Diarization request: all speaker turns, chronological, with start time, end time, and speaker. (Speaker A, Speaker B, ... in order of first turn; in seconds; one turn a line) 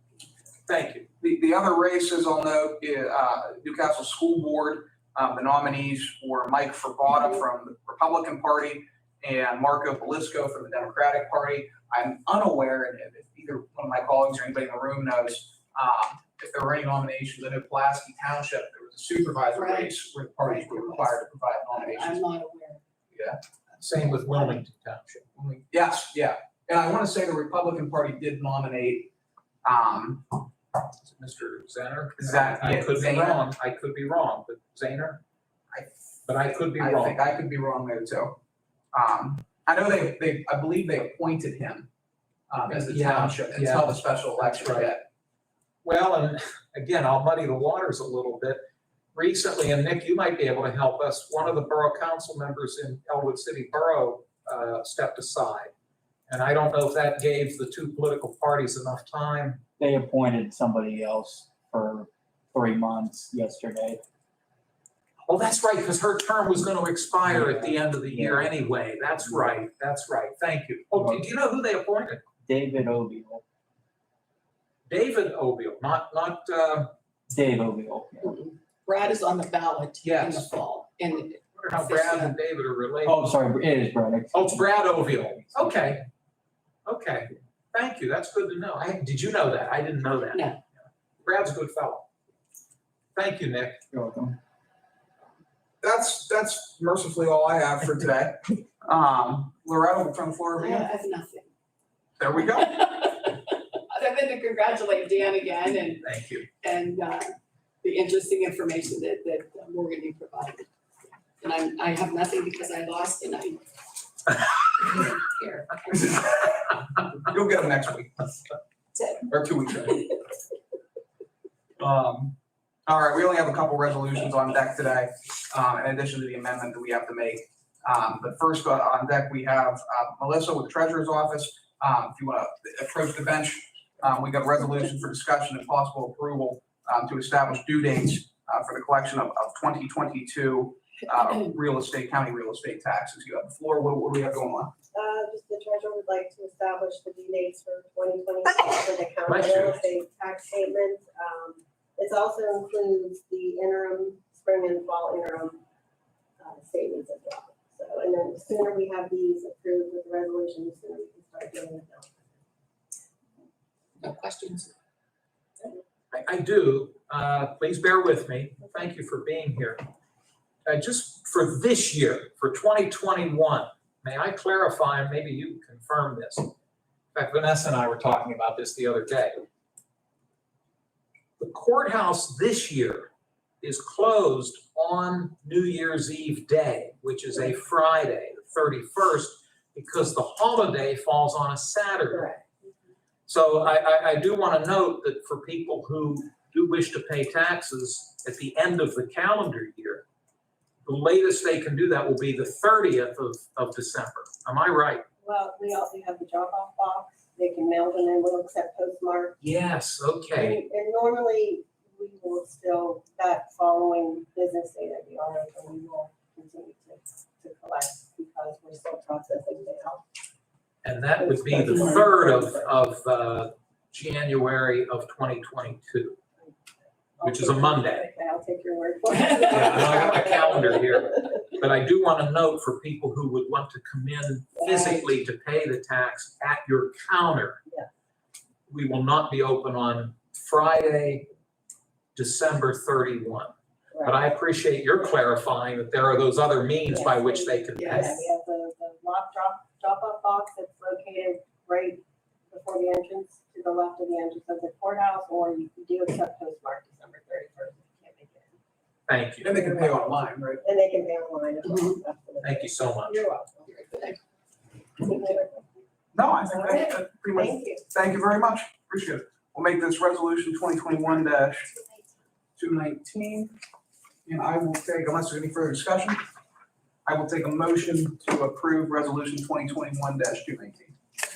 Speaker A: 0.7-1.1
Speaker B: 1.2-22.2
Speaker C: 19.5-22.8
Speaker B: 23.1-23.4
Speaker C: 23.8-24.6
Speaker A: 23.8-25.2
Speaker B: 25.4-29.1
Speaker B: 29.6-30.4
Speaker A: 31.0-35.2
Speaker B: 32.2-33.5
Speaker A: 36.3-37.2
Speaker B: 36.5-38.4
Speaker B: 38.9-41.9
Speaker B: 42.5-45.1
Speaker A: 42.7-44.9
Speaker A: 45.8-48.6
Speaker A: 49.1-55.7
Speaker A: 56.3-59.6
Speaker D: 59.8-64.0
Speaker A: 65.2-72.2
Speaker D: 67.3-68.5
Speaker D: 70.9-71.2
Speaker D: 72.5-73.4
Speaker A: 74.9-76.9
Speaker D: 77.3-78.3
Speaker C: 78.2-82.4
Speaker A: 80.0-80.5
Speaker A: 81.6-83.2
Speaker D: 83.0-84.7
Speaker A: 84.3-86.0
Speaker A: 86.9-90.5
Speaker C: 90.3-90.6
Speaker A: 91.2-92.1
Speaker A: 93.2-93.8
Speaker D: 93.9-94.4
Speaker B: 95.8-100.9
Speaker C: 100.5-101.5
Speaker B: 102.2-102.8
Speaker C: 102.5-110.7
Speaker A: 106.0-106.5
Speaker C: 111.4-113.6
Speaker C: 114.7-116.2
Speaker B: 116.0-116.5
Speaker B: 117.2-118.3
Speaker B: 119.2-120.1
Speaker B: 121.8-122.3
Speaker B: 122.9-144.7
Speaker E: 144.9-155.6
Speaker A: 149.3-149.9
Speaker E: 156.4-162.3
Speaker C: 164.0-164.7
Speaker A: 166.1-169.8
Speaker A: 170.7-176.5
Speaker A: 177.1-179.4
Speaker A: 181.4-183.1
Speaker A: 183.6-192.3
Speaker E: 192.1-192.5
Speaker A: 193.3-200.0
Speaker A: 200.8-205.0
Speaker E: 205.2-209.4
Speaker A: 209.4-210.6
Speaker E: 210.4-220.0
Speaker A: 220.8-226.2
Speaker E: 221.2-222.7
Speaker E: 227.2-231.4
Speaker A: 227.2-228.1
Speaker C: 229.1-230.4
Speaker A: 229.5-237.6
Speaker E: 234.6-234.8
Speaker C: 234.7-235.0
Speaker A: 238.7-241.3
Speaker A: 242.2-248.2
Speaker E: 243.9-244.2
Speaker E: 246.9-258.6
Speaker C: 247.7-248.2
Speaker A: 259.1-259.5
Speaker B: 259.4-260.6
Speaker E: 259.5-263.7
Speaker C: 261.6-262.0
Speaker A: 262.4-263.2
Speaker C: 263.7-264.2
Speaker E: 265.0-265.8
Speaker B: 266.1-271.7
Speaker E: 266.4-267.8
Speaker B: 272.6-273.6
Speaker B: 274.3-276.2
Speaker B: 277.1-280.9